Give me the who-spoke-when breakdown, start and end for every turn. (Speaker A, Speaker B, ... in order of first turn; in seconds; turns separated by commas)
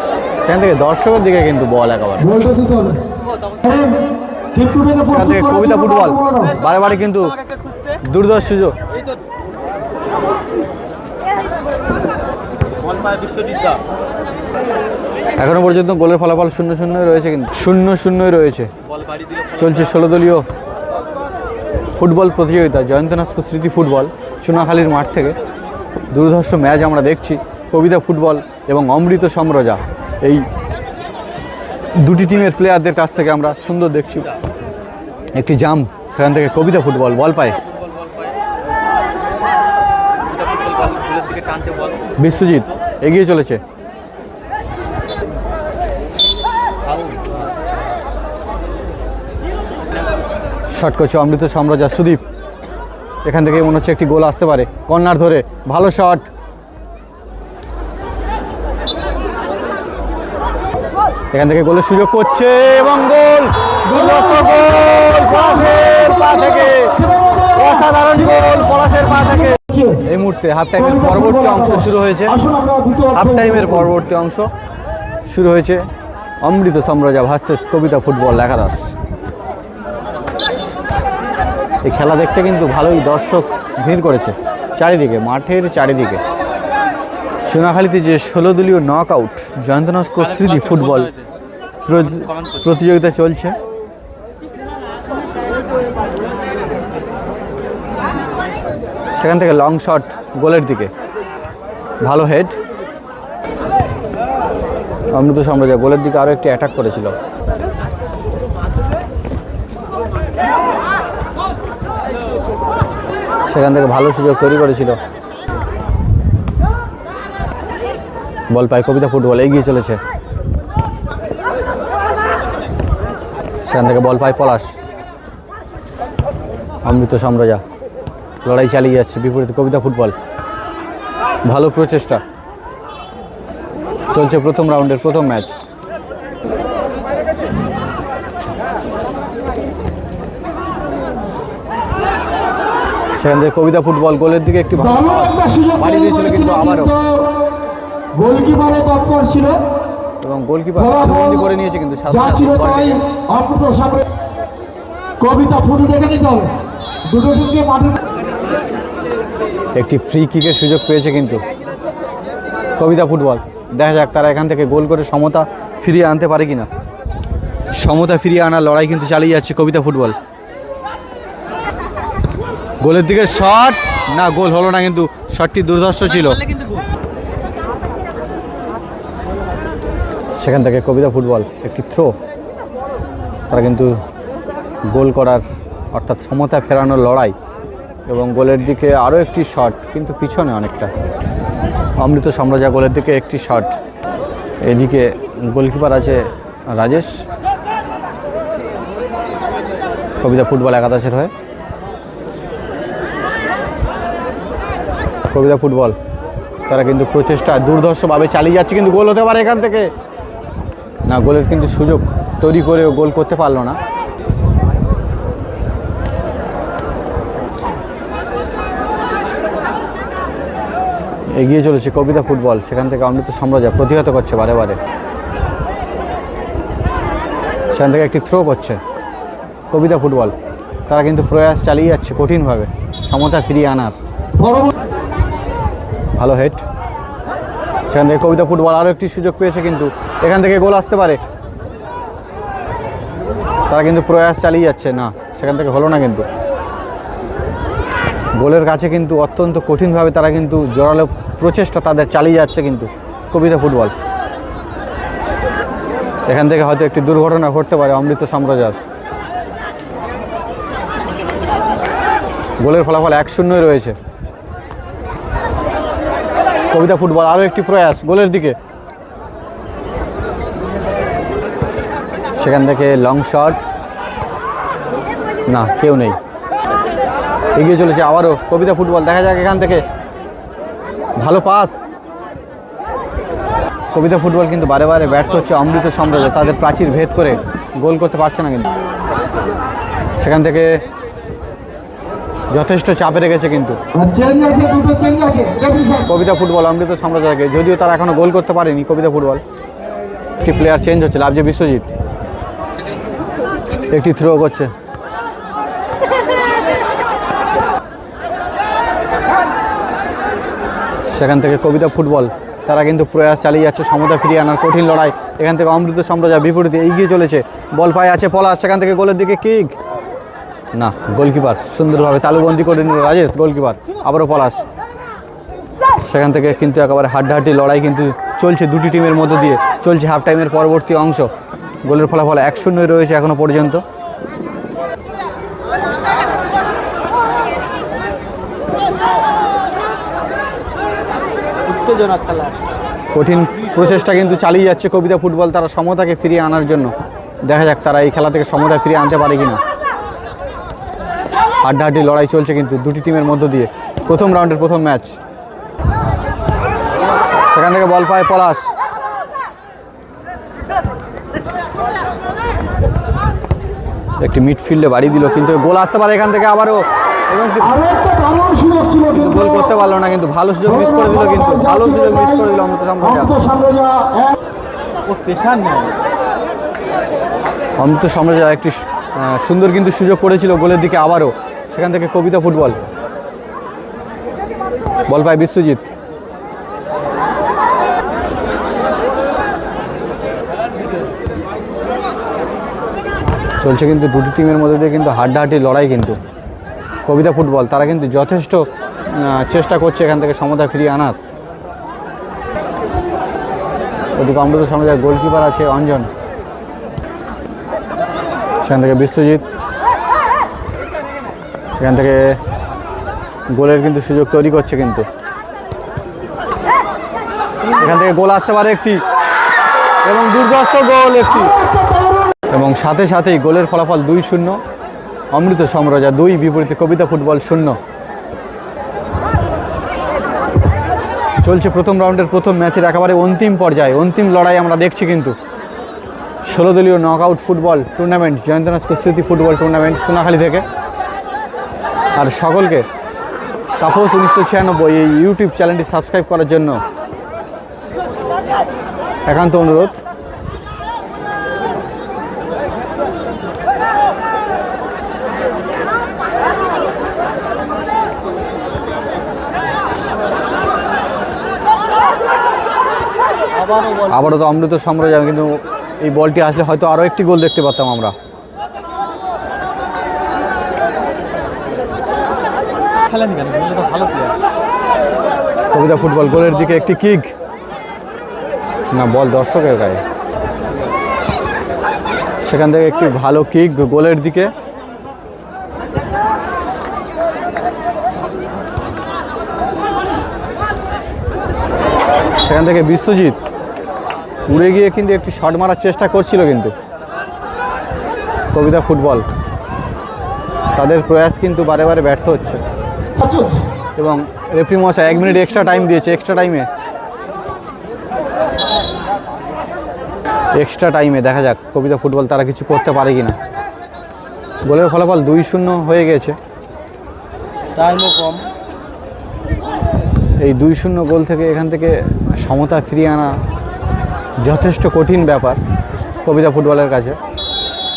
Speaker A: 0.4-2.3, Speaker B: 2.2-3.0, Speaker B: 3.6-4.0, Speaker B: 4.5-6.6, Speaker A: 5.1-7.3, Speaker A: 8.0-8.8, Speaker C: 12.9-13.8, Speaker A: 15.4-18.7, Speaker A: 19.5-20.5, Speaker A: 22.0-25.4, Speaker A: 26.1-30.5, Speaker A: 32.0-34.4, Speaker A: 35.3-37.6, Speaker C: 38.0-38.3, Speaker C: 40.3-42.0, Speaker A: 42.2-43.6, Speaker C: 46.9-47.3, Speaker A: 50.7-52.2, Speaker A: 53.2-56.3, Speaker A: 61.3-72.4, Speaker B: 65.7-67.9, Speaker B: 69.3-70.0, Speaker B: 70.8-73.8, Speaker A: 73.1-74.5, Speaker A: 75.3-75.8, Speaker A: 76.4-78.9, Speaker A: 81.8-86.2, Speaker A: 87.5-91.1, Speaker A: 91.8-93.5, Speaker A: 99.2-100.9, Speaker A: 102.0-102.5, Speaker A: 105.1-107.1, Speaker A: 113.5-115.0, Speaker A: 118.5-120.0, Speaker A: 123.7-124.7, Speaker A: 126.8-127.6, Speaker A: 128.4-130.1, Speaker A: 131.4-132.2, Speaker A: 134.1-135.5, Speaker A: 143.2-146.9, Speaker B: 144.8-147.4, Speaker B: 148.1-149.6, Speaker A: 150.2-153.0, Speaker B: 150.8-151.4, Speaker B: 152.1-154.1, Speaker B: 155.2-156.5, Speaker B: 157.1-158.0, Speaker A: 159.8-161.4, Speaker A: 162.8-166.7, Speaker A: 167.8-170.2, Speaker A: 172.8-176.6, Speaker A: 180.4-182.1, Speaker A: 183.5-183.9, Speaker A: 184.9-187.3, Speaker A: 188.1-190.9, Speaker A: 192.0-193.7, Speaker A: 194.6-197.1, Speaker A: 200.2-201.3, Speaker A: 205.3-206.0, Speaker A: 206.7-209.9, Speaker A: 211.1-213.8, Speaker A: 221.3-224.8, Speaker A: 227.7-228.8, Speaker A: 229.7-230.3, Speaker A: 230.9-234.0, Speaker B: 234.4-234.7, Speaker A: 236.2-236.6, Speaker A: 237.9-241.2, Speaker A: 243.7-246.2, Speaker A: 248.4-253.9, Speaker A: 256.3-258.8, Speaker A: 262.6-264.0, Speaker A: 266.7-268.6, Speaker A: 272.4-273.6, Speaker A: 275.5-276.2, Speaker A: 277.6-279.9, Speaker A: 281.2-281.8, Speaker A: 283.9-288.7, Speaker A: 290.2-290.8, Speaker A: 292.5-293.8, Speaker B: 293.9-296.1, Speaker A: 296.1-299.4, Speaker A: 300.4-301.9, Speaker A: 303.9-304.7, Speaker A: 311.1-319.8, Speaker A: 320.7-324.6, Speaker A: 326.0-331.3, Speaker A: 331.8-333.8, Speaker C: 341.7-342.6, Speaker A: 343.1-346.9, Speaker A: 347.4-349.6, Speaker A: 351.6-355.2, Speaker A: 357.5-358.7, Speaker A: 364.2-367.8, Speaker B: 367.6-369.6, Speaker A: 369.1-373.3, Speaker B: 370.7-372.4, Speaker B: 373.0-374.4, Speaker C: 375.1-376.0, Speaker A: 377.8-382.8, Speaker A: 385.1-385.9, Speaker A: 393.6-396.2, Speaker A: 397.1-401.2, Speaker A: 404.1-406.1, Speaker A: 408.6-409.5, Speaker A: 411.8-412.4, Speaker A: 413.5-415.1, Speaker A: 417.7-419.0, Speaker A: 420.0-421.6, Speaker A: 422.5-424.6, Speaker A: 425.3-427.8, Speaker A: 431.4-435.4, Speaker A: 436.5-440.6, Speaker A: 442.2-442.9, Speaker A: 443.8-446.8, Speaker A: 449.2-450.0, Speaker C: 463.6-464.1, Speaker A: 464.0-468.1, Speaker C: 473.1-474.4, Speaker A: 475.7-477.3, Speaker A: 478.9-480.0, Speaker A: 482.4-484.5, Speaker A: 492.4-493.4, Speaker A: 494.5-496.7, Speaker A: 498.5-499.2, Speaker A: 500.8-502.6, Speaker B: 503.2-503.6, Speaker A: 504.0-506.7, Speaker A: 510.6-513.4, Speaker A: 514.6-516.4, Speaker C: 517.8-518.5, Speaker A: 520.4-523.4, Speaker A: 524.4-525.6, Speaker A: 526.2-527.2